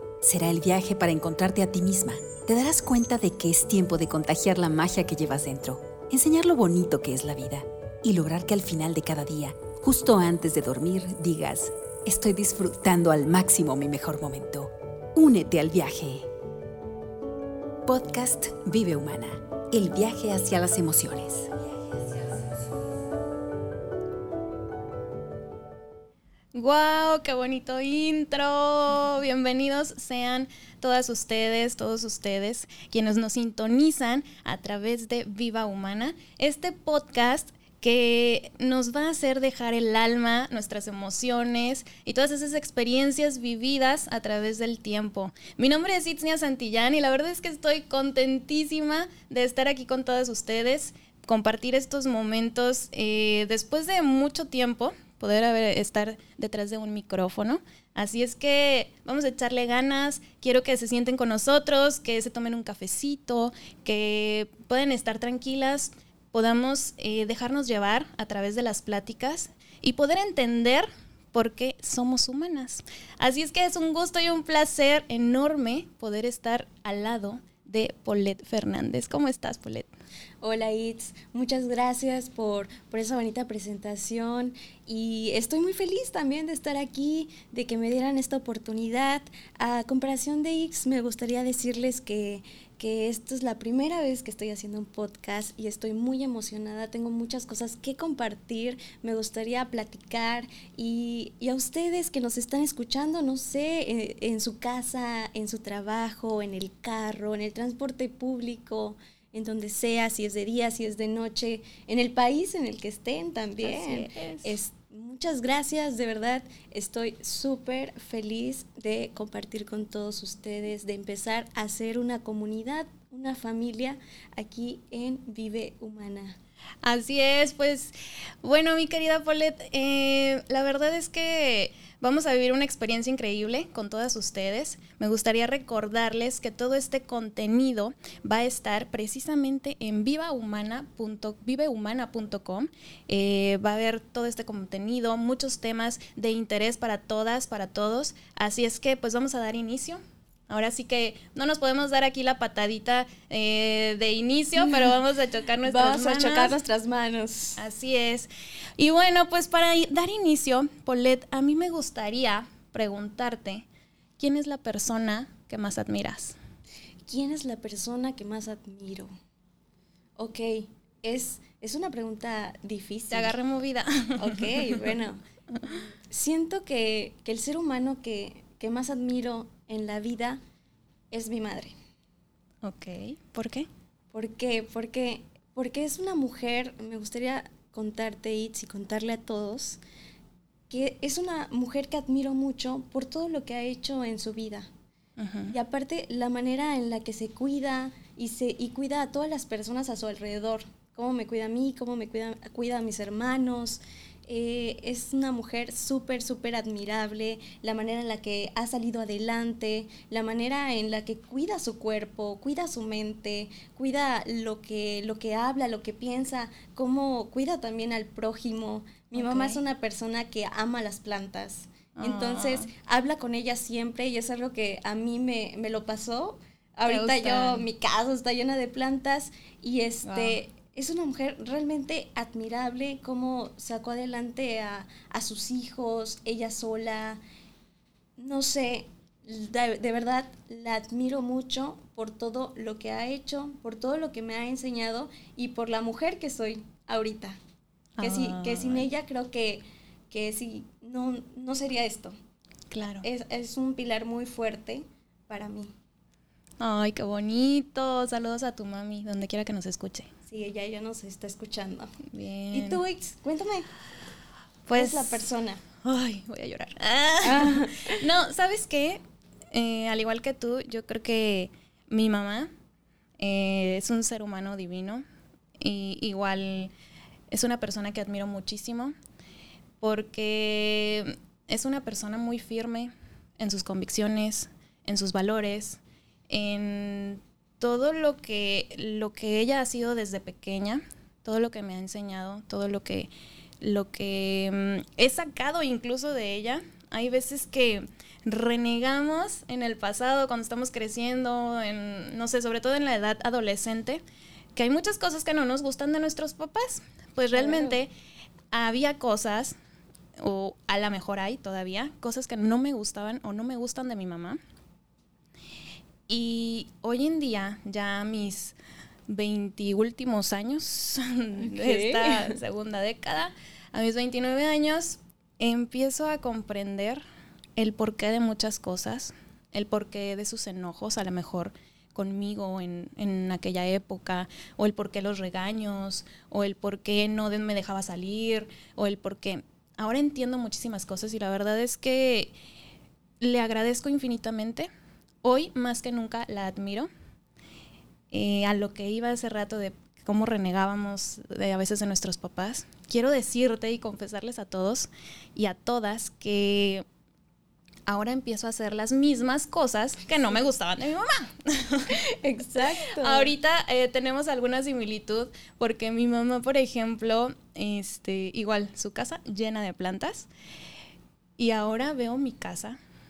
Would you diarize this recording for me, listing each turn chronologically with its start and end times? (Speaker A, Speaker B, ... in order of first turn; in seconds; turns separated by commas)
Speaker A: 0.2-16.3, Speaker A: 17.9-22.5, Speaker B: 26.5-79.9, Speaker C: 80.4-126.4, Speaker B: 113.6-114.6, Speaker B: 126.8-156.6, Speaker C: 155.6-157.6, Speaker B: 157.6-163.7, Speaker B: 164.2-166.4, Speaker C: 167.1-169.1, Speaker C: 170.2-173.3, Speaker B: 173.1-174.9, Speaker C: 174.2-180.4, Speaker C: 181.1-181.8, Speaker B: 182.6-183.7, Speaker C: 184.1-189.8, Speaker C: 190.7-194.7, Speaker B: 195.2-195.5, Speaker C: 195.5-237.2, Speaker B: 219.2-219.6, Speaker B: 222.0-222.7, Speaker B: 226.9-227.7, Speaker B: 230.0-230.4, Speaker C: 238.2-247.4, Speaker B: 248.0-248.9, Speaker C: 248.0-252.2, Speaker B: 252.7-253.1, Speaker C: 253.0-255.7, Speaker B: 256.6-260.1, Speaker C: 260.3-261.9, Speaker B: 262.1-262.8, Speaker C: 262.5-263.7, Speaker B: 264.7-265.3, Speaker C: 264.7-265.6, Speaker B: 265.8-272.5, Speaker C: 267.2-268.0, Speaker B: 273.2-275.0, Speaker B: 275.6-276.7, Speaker B: 277.3-278.9, Speaker B: 279.8-293.1, Speaker B: 293.6-304.0, Speaker B: 304.6-307.9, Speaker C: 307.3-307.8, Speaker B: 308.5-309.6, Speaker B: 310.2-314.4, Speaker B: 316.1-318.6, Speaker B: 319.1-327.0, Speaker C: 321.4-322.4, Speaker B: 327.6-342.3, Speaker B: 343.2-344.7, Speaker B: 345.2-346.9, Speaker B: 348.1-356.9, Speaker B: 357.9-362.0, Speaker C: 361.9-363.3, Speaker B: 362.6-370.3, Speaker B: 371.4-372.8